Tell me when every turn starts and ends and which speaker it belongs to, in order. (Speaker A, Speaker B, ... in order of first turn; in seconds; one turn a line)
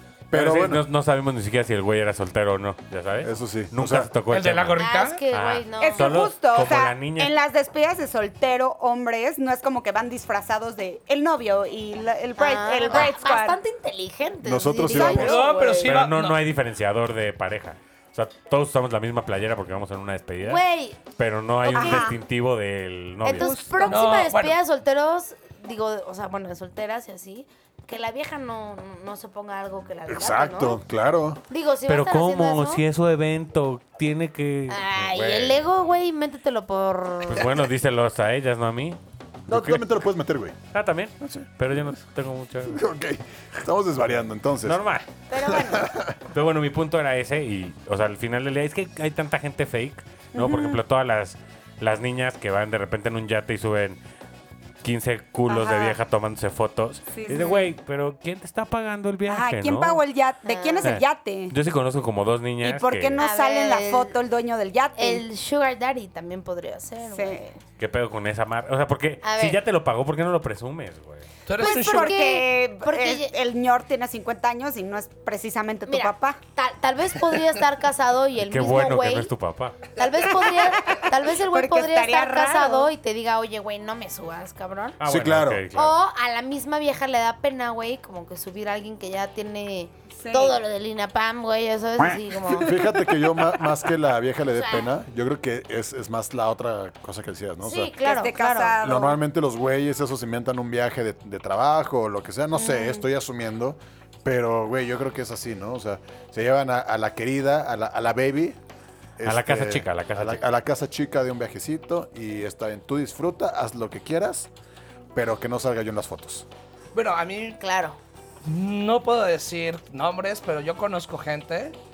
Speaker A: 0.3-0.8
Speaker B: 0.3-7.3
Speaker A: 3.2-4.1
Speaker C: 4.3-5.2
Speaker D: 4.8-6.3
Speaker E: 5.8-13.6
Speaker D: 12.4-16.0
Speaker A: 14.4-15.4
Speaker E: 14.9-15.3
Speaker C: 15.0-16.4
Speaker B: 15.8-23.6
Speaker D: 20.4-21.0
Speaker D: 21.6-22.1
Speaker E: 21.7-22.2
Speaker D: 23.2-30.8
Speaker E: 23.3-24.1
Speaker C: 23.9-24.6
Speaker A: 30.1-31.4
Speaker D: 31.5-32.8
Speaker B: 31.9-35.7
Speaker D: 34.7-37.6
Speaker B: 37.3-40.0
Speaker A: 39.5-40.6
Speaker B: 40.7-42.8
Speaker A: 41.2-41.5
Speaker A: 42.7-44.8
Speaker B: 44.6-45.1
Speaker D: 45.3-45.9
Speaker A: 45.4-46.2
Speaker B: 46.3-54.0
Speaker E: 50.3-50.8
Speaker B: 54.8-60.0
Speaker E: 55.5-56.0
Speaker E: 57.1-57.7
Speaker E: 59.3-61.5
Speaker D: 60.4-61.0
Speaker B: 60.8-63.2
Speaker E: 62.6-65.2
Speaker D: 63.2-64.2
Speaker D: 65.0-67.6
Speaker E: 67.1-67.4
Speaker B: 67.8-71.3
Speaker D: 69.2-69.6
Speaker C: 71.5-72.2
Speaker E: 71.6-76.4
Speaker D: 71.6-73.3
Speaker D: 75.8-79.3
Speaker B: 78.4-79.8
Speaker D: 80.0-85.0
Speaker E: 80.4-82.9
Speaker B: 85.0-86.0
Speaker A: 85.0-85.7
Speaker D: 85.7-92.7
Speaker E: 90.2-90.6
Speaker A: 92.5-97.9
Speaker D: 94.5-94.8
Speaker D: 97.6-98.8
Speaker E: 98.0-99.2
Speaker A: 98.8-108.6
Speaker E: 102.5-103.0
Speaker A: 109.2-114.5
Speaker B: 109.2-110.4
Speaker A: 115.1-116.5
Speaker C: 116.9-117.6
Speaker D: 117.6-118.0
Speaker C: 118.4-121.8